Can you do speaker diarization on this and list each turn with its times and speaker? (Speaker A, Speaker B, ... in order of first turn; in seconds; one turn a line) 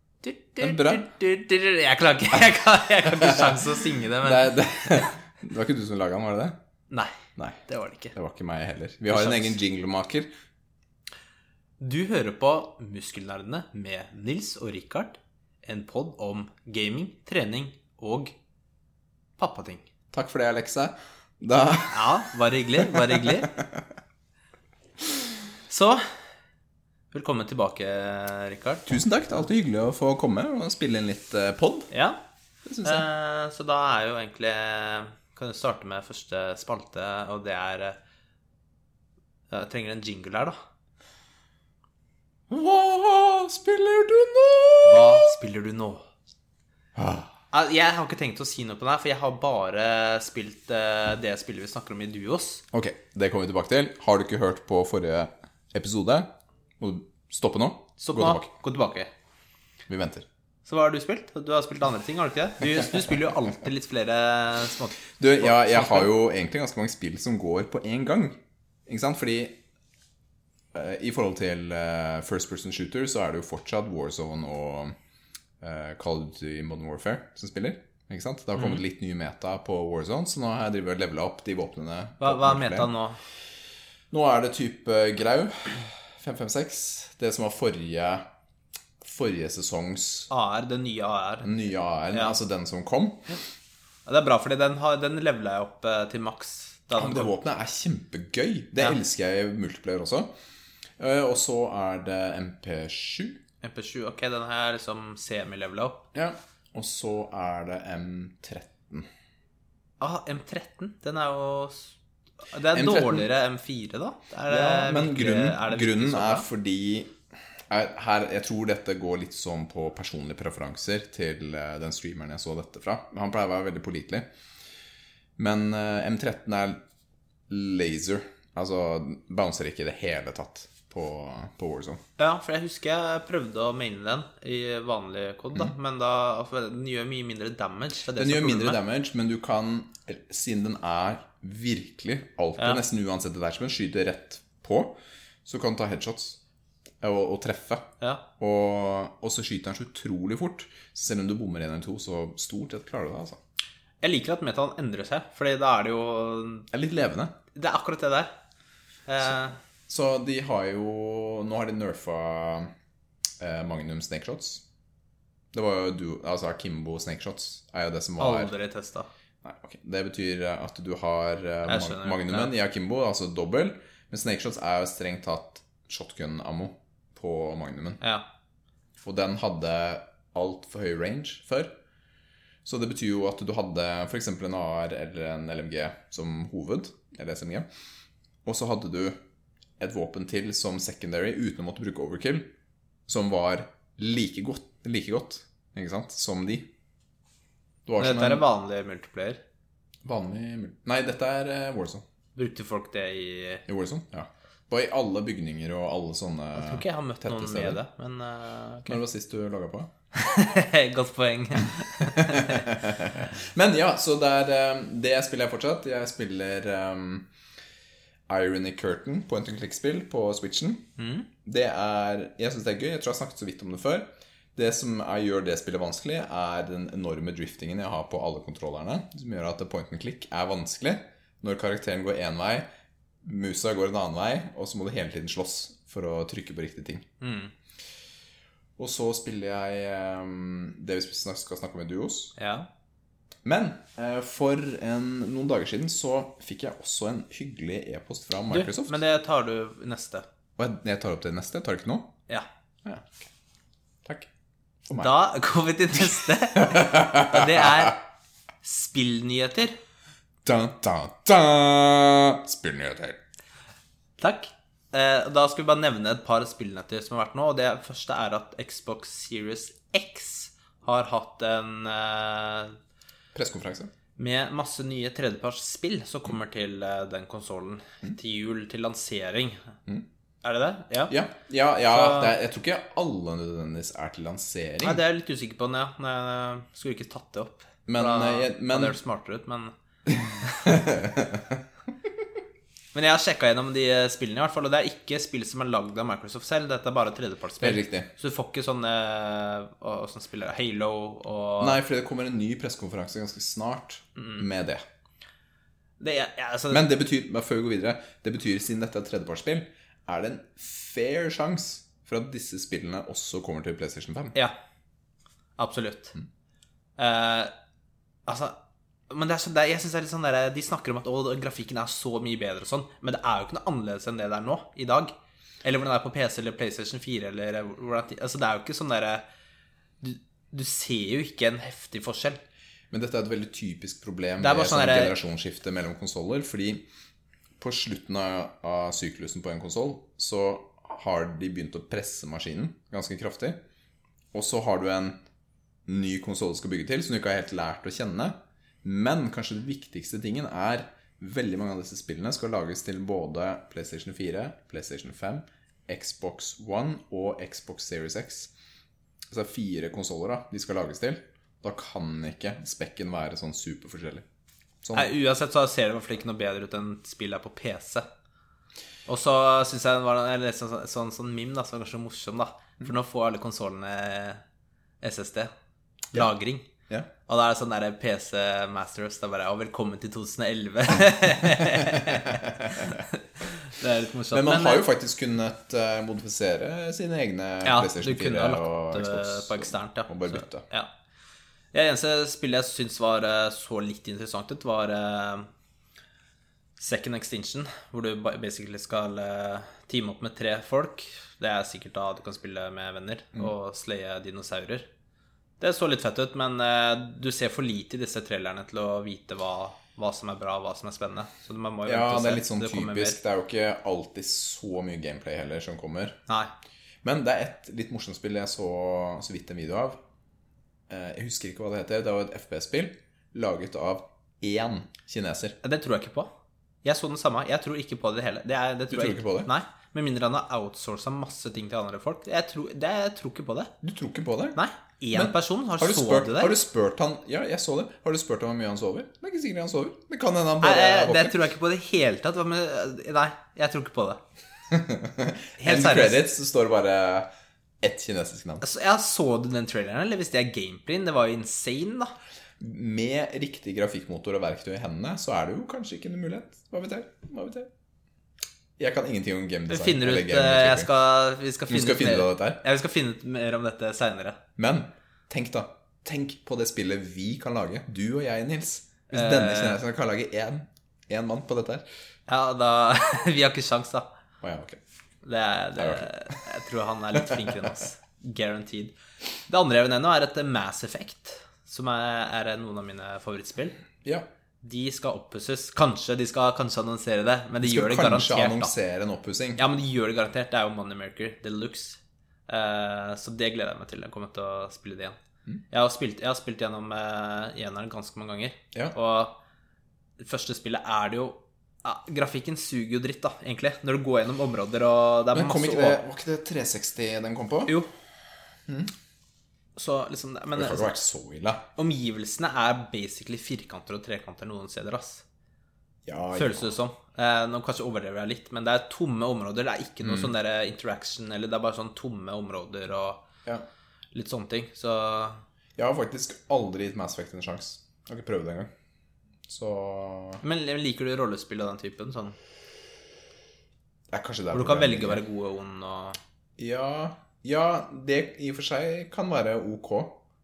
Speaker A: 0.2-5.0
Speaker B: 0.6-1.1
Speaker B: 3.2-3.6
Speaker B: 4.2-6.6
Speaker A: 6.9-8.1
Speaker B: 7.3-7.6
Speaker B: 8.1-10.3
Speaker A: 9.1-9.6
Speaker A: 11.8-18.3
Speaker A: 19.4-19.9
Speaker B: 20.1-22.2
Speaker A: 21.9-23.6
Speaker B: 22.8-23.9
Speaker A: 25.7-26.0
Speaker A: 27.1-28.9
Speaker B: 28.9-31.9
Speaker A: 31.9-32.2
Speaker B: 32.6-33.0
Speaker A: 32.8-38.0
Speaker A: 39.5-40.6
Speaker B: 42.5-45.3
Speaker A: 44.8-46.0
Speaker B: 47.0-47.3
Speaker A: 47.5-52.6
Speaker B: 52.7-58.5
Speaker A: 58.0-59.1
Speaker B: 59.9-60.3
Speaker A: 60.6-66.1
Speaker B: 65.2-69.6
Speaker B: 70.7-74.9
Speaker B: 75.6-82.9
Speaker A: 82.2-83.2
Speaker B: 84.1-88.2
Speaker B: 89.0-90.3
Speaker A: 90.3-91.5
Speaker B: 91.4-93.3
Speaker A: 94.0-97.3
Speaker B: 96.9-100.3
Speaker B: 101.0-103.4
Speaker A: 103.6-106.0
Speaker B: 106.1-109.1
Speaker A: 110.0-111.9
Speaker A: 112.5-116.5
Speaker B: 112.7-113.3
Speaker B: 114.5-117.1
Speaker B: 117.7-124.2
Speaker B: 125.4-126.8
Speaker B: 127.5-132.0
Speaker A: 132.2-138.8
Speaker B: 138.2-146.4
Speaker B: 147.0-153.4
Speaker A: 154.0-156.7
Speaker B: 156.7-157.3
Speaker A: 157.5-158.3
Speaker A: 159.1-159.6
Speaker B: 159.9-162.7
Speaker B: 163.4-164.6
Speaker B: 165.5-168.5
Speaker A: 168.2-169.1
Speaker B: 169.4-178.0
Speaker A: 171.7-172.5
Speaker B: 179.0-181.7
Speaker B: 182.6-187.7
Speaker B: 188.4-189.2
Speaker B: 189.8-192.5
Speaker B: 193.1-196.7
Speaker B: 197.8-198.4
Speaker A: 198.0-199.4
Speaker B: 200.0-202.0
Speaker A: 202.3-203.6
Speaker B: 203.7-207.8
Speaker A: 206.6-209.0
Speaker B: 208.8-209.9
Speaker A: 210.1-212.7
Speaker B: 212.0-217.3
Speaker B: 218.3-220.9
Speaker A: 221.0-221.3
Speaker B: 221.4-232.7
Speaker B: 233.2-237.1
Speaker A: 237.2-237.5
Speaker B: 238.8-242.3
Speaker A: 242.3-242.7
Speaker B: 243.4-249.0
Speaker A: 248.5-250.2
Speaker B: 250.6-252.1
Speaker B: 252.8-253.3
Speaker B: 254.8-255.1
Speaker A: 255.0-258.0
Speaker B: 256.6-257.7
Speaker A: 258.6-259.8
Speaker B: 260.4-263.2
Speaker A: 264.2-272.8
Speaker B: 273.3-273.9
Speaker A: 274.2-279.7
Speaker A: 280.4-281.1
Speaker B: 281.1-285.0
Speaker A: 281.9-282.3
Speaker A: 284.8-289.7
Speaker B: 287.9-289.0
Speaker B: 290.1-291.6
Speaker A: 290.4-290.7
Speaker A: 292.9-301.8
Speaker B: 297.6-298.1
Speaker B: 301.6-304.8
Speaker A: 304.1-304.4
Speaker A: 306.0-306.8
Speaker B: 306.7-314.4
Speaker A: 315.6-316.2
Speaker A: 317.0-317.5
Speaker A: 318.2-318.6
Speaker A: 319.1-329.2
Speaker A: 330.0-332.4
Speaker B: 332.9-336.8
Speaker A: 334.4-335.1
Speaker B: 337.6-343.6
Speaker B: 344.3-345.2
Speaker B: 345.9-358.5
Speaker B: 359.3-364.2
Speaker B: 364.8-365.1
Speaker A: 364.9-368.1
Speaker A: 369.1-374.4
Speaker A: 375.0-375.5
Speaker A: 376.1-376.7
Speaker A: 377.3-384.8
Speaker B: 381.6-383.1
Speaker B: 384.3-390.6
Speaker A: 387.6-390.9
Speaker A: 391.7-395.5
Speaker A: 396.8-404.9
Speaker A: 405.6-413.2
Speaker B: 411.8-416.2
Speaker B: 417.0-420.0
Speaker B: 420.9-425.6
Speaker A: 425.6-426.3
Speaker A: 426.8-433.7
Speaker B: 428.9-429.5
Speaker B: 433.8-434.6
Speaker A: 434.5-436.6
Speaker B: 435.1-441.4
Speaker A: 440.6-444.2
Speaker B: 444.7-447.3
Speaker A: 445.6-446.2
Speaker B: 447.8-448.6
Speaker A: 448.6-452.1
Speaker B: 452.6-457.7
Speaker B: 458.8-460.9
Speaker A: 459.7-464.4
Speaker B: 461.7-462.6
Speaker B: 464.6-471.9
Speaker A: 469.1-469.8
Speaker A: 472.3-474.1
Speaker B: 474.4-474.8
Speaker A: 475.2-478.9
Speaker B: 475.8-476.4
Speaker B: 477.1-477.5
Speaker A: 479.5-483.8
Speaker A: 484.6-488.7
Speaker B: 487.6-489.6
Speaker A: 489.6-495.1
Speaker A: 495.7-499.4
Speaker A: 500.2-506.0
Speaker B: 505.3-507.8
Speaker B: 508.7-508.9
Speaker A: 509.8-511.0
Speaker B: 510.5-511.6
Speaker A: 511.8-515.2
Speaker B: 516.0-516.7
Speaker A: 516.3-523.2
Speaker B: 520.0-520.3
Speaker A: 524.1-525.4
Speaker B: 525.8-528.7
Speaker B: 529.5-530.4
Speaker A: 530.4-532.4
Speaker B: 534.1-535.2
Speaker A: 534.5-536.2
Speaker B: 536.6-540.2